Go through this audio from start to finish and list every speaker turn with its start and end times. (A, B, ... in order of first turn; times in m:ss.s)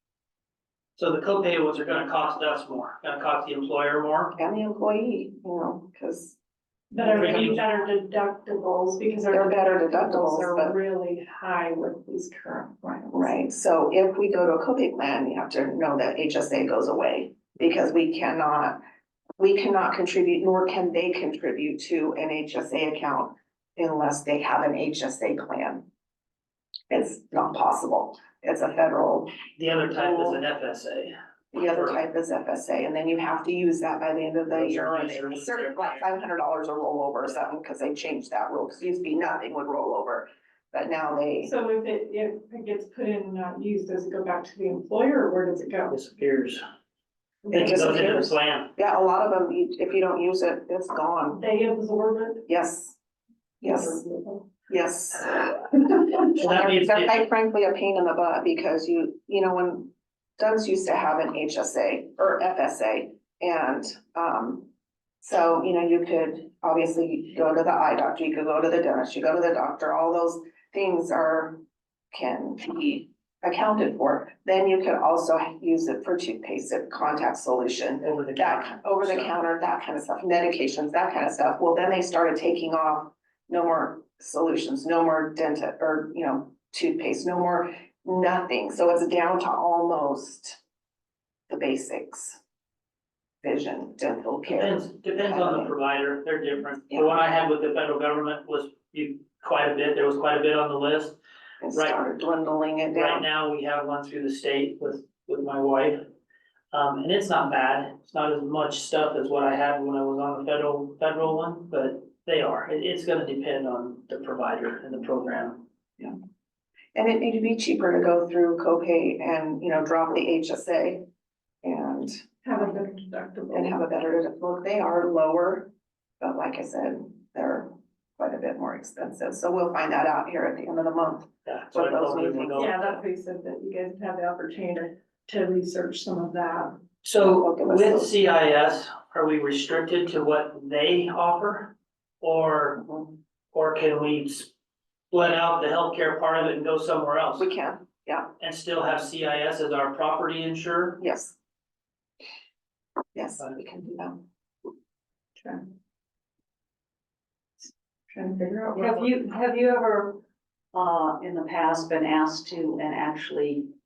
0:01.0-0:04.4 A
0:04.4-0:06.4 B
0:06.9-0:13.3 C
0:07.0-0:07.6 B
0:07.1-0:07.6 A
0:09.3-0:10.8 B
0:13.1-0:18.8 B
0:19.4-0:25.9 B
0:26.9-0:29.3 B
0:29.6-0:32.0 A
0:29.9-0:30.4 B
0:31.5-0:41.5 B
0:34.5-0:36.0 A
0:41.5-0:45.9 C
0:45.9-0:46.6 A
0:47.5-0:51.4 B
0:47.5-0:48.7 A
0:51.4-0:52.4 C
0:52.5-0:53.0 B
0:53.6-0:54.0 B
0:53.8-0:54.4 C
0:54.7-1:04.7 B
0:56.4-0:57.3 A
1:05.2-1:11.6 B
1:12.1-1:30.6 B
1:18.0-1:19.4 A
1:31.5-1:32.4 B
1:33.4-1:35.7 B
1:34.5-1:41.2 A
1:36.9-1:37.2 B
1:41.6-1:43.3 B
1:41.7-1:42.0 A
1:42.9-1:46.0 A
1:46.7-1:55.6 A
1:57.0-2:01.1 B
2:01.6-2:02.2 B
2:02.4-2:03.7 C
2:03.5-2:13.0 B
2:11.5-2:12.7 A
2:12.6-2:16.7 C
2:17.0-2:22.9 A
2:17.2-2:18.1 B
2:22.8-2:23.1 B
2:23.5-2:24.5 A
2:25.1-2:27.5 A
2:27.4-2:28.3 B
2:28.4-2:31.0 A
2:31.0-2:31.4 B
2:33.1-2:34.2 B
2:38.1-2:39.1 B
2:38.8-2:40.2 D
2:40.7-2:43.7 D